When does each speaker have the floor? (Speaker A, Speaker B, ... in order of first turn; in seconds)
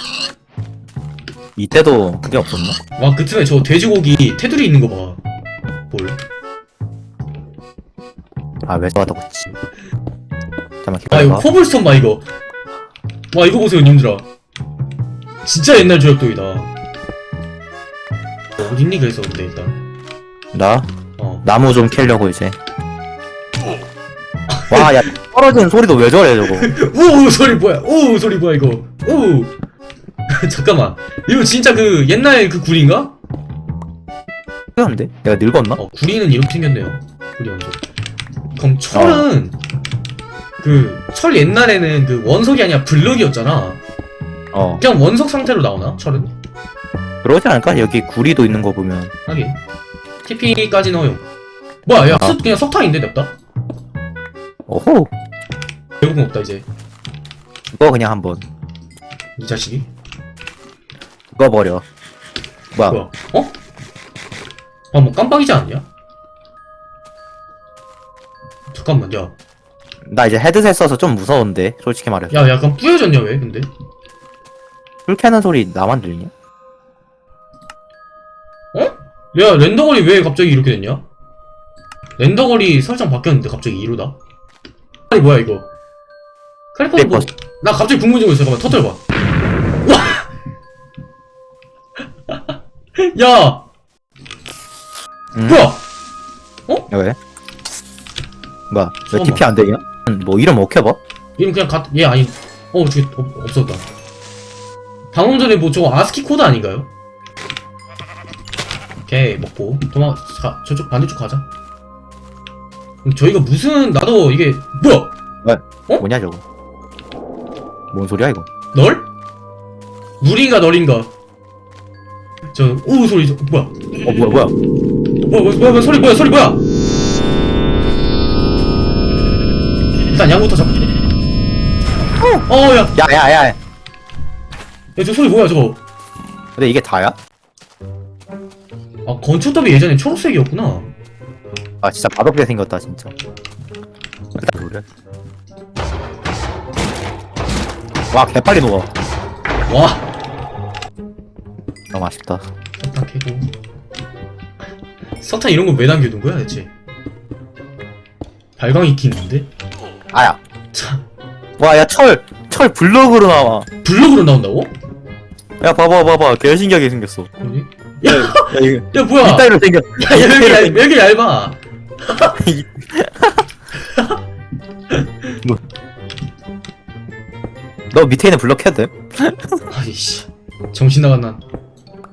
Speaker A: 1.6-2.8, 8.7-9.5, 10.8-11.5, 20.5-20.9, 21.4-22.6, 24.7-26.7, 34.8-35.8, 38.9-39.3, 44.5-44.8, 47.2-49.1, 52.0-52.4, 54.7-55.1, 57.7-58.5, 61.4-61.8, 62.7-63.0, 70.1-72.4, 75.1-76.3, 87.0-87.3, 95.3-95.7, 96.9-97.2, 98.7-101.0, 115.4-116.4, 117.9-118.5, 124.0-124.5, 132.9-133.6, 136.6-137.2, 141.8-143.1, 144.4-144.8, 148.1-148.9, 151.9-152.5, 160.1-160.4, 161.6-163.7, 165.6-167.3, 168.1-170.8, 172.3-173.4, 177.9-179.6
Speaker B: 3.0-5.2, 5.9-6.2, 11.1-12.2, 13.3-14.3, 15.4-16.7, 18.6-19.8, 21.2-21.4, 24.5-25.1, 26.4-29.5, 30.3-33.1, 35.8-37.8, 38.5-39.6, 40.6-43.8, 44.8-46.3, 49.3-49.6, 50.2-51.2, 51.9-53.3, 56.0-56.7, 59.4-59.9, 62.9-63.5, 64.9-65.9, 68.7-69.3, 72.3-73.7, 78.7-81.1, 82.2-84.2, 85.1-85.7, 86.7-89.0, 89.8-90.3, 92.3-93.7, 95.5-95.8, 99.1-99.5, 101.4-103.9, 105.1-106.9, 109.1-111.5, 113.0-115.1, 118.7-119.1, 120.2-121.1, 122.5-123.8, 125.2-126.6, 130.1-130.9, 132.5-133.0, 135.0-135.8, 139.1-140.9, 149.7-150.1, 152.8-153.5, 155.2-156.7, 158.6-159.5, 160.7-161.0, 163.8-164.7, 167.4-172.3, 173.8-174.2, 174.9-175.4, 179.7-181.4